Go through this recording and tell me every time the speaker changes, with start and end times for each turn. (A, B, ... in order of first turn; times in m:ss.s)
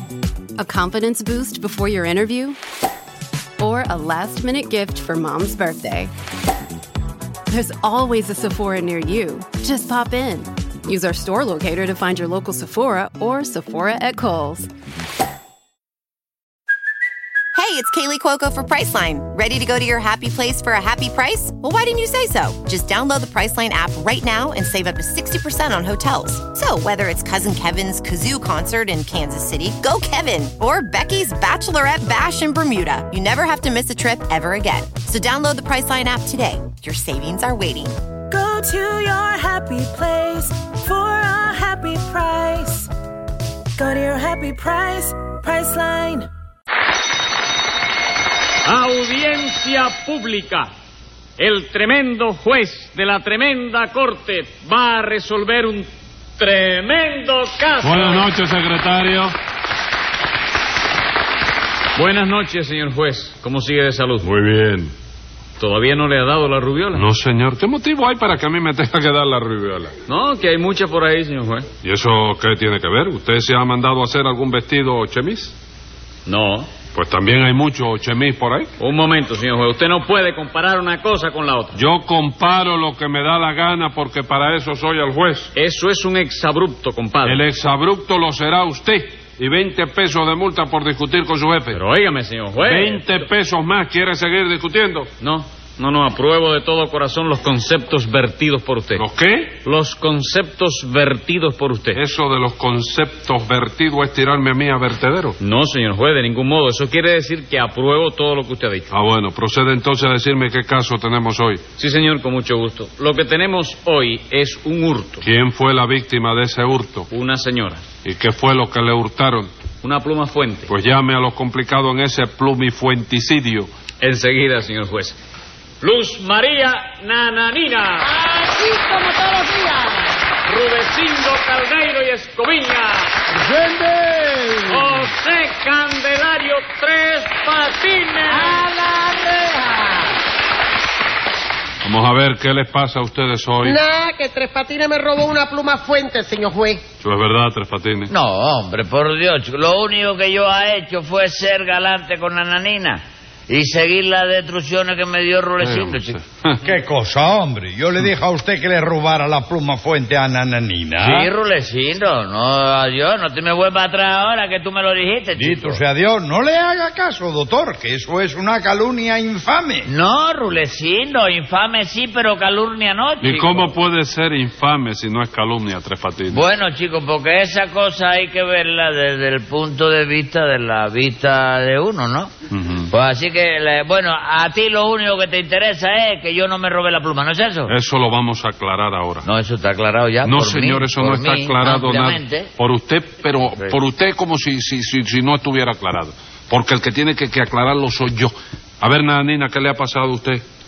0:00.6-0:02.6 A
0:03.6-0:06.1 A
0:07.5-0:14.7 A
0:17.5-0:37.9 B
0:38.3-0:42.9 C
0:43.8-0:46.3 C
0:48.6-0:50.7 D
0:51.4-0:58.3 D
0:57.8-0:59.3 E
1:02.0-1:04.3 D
1:04.2-1:04.9 E
1:05.6-1:07.0 D
1:06.9-1:09.9 E
1:10.1-1:11.7 D
1:11.8-1:15.5 E
1:16.2-1:16.7 D
1:16.9-1:18.7 E
1:18.8-1:21.8 D
1:21.7-1:25.5 E
1:25.5-1:27.4 D
1:27.2-1:31.8 E
1:31.7-1:33.1 D
1:32.6-1:35.1 E
1:35.2-1:39.0 D
1:38.9-1:39.6 E
1:39.6-1:42.0 D
1:41.9-1:45.4 E
1:45.4-1:48.9 D
1:48.9-1:51.6 E
1:51.8-1:55.2 D
1:55.2-1:57.1 E
1:57.1-1:57.8 D
1:58.0-1:59.5 E
1:59.8-2:00.7 D
2:00.7-2:03.7 E
2:04.0-2:05.2 D
2:05.8-2:08.1 D
2:08.5-2:10.0 F
2:10.4-2:13.2 D
2:13.6-2:14.5 E
2:14.7-2:18.6 D
2:18.7-2:19.8 F
2:21.8-2:23.8 E
2:23.6-2:26.8 F
2:27.0-2:28.1 E
2:28.1-2:36.2 G
2:35.6-2:36.6 E
2:36.6-2:41.3 H
2:41.0-2:45.8 G
2:45.3-2:49.9 H
2:49.8-2:53.7 G
2:53.2-2:56.4 E
2:56.3-3:02.3 G
3:02.5-3:02.9 E
3:02.9-3:07.7 G
3:07.7-3:09.2 E
3:09.2-3:12.5 G
3:10.2-3:20.4 E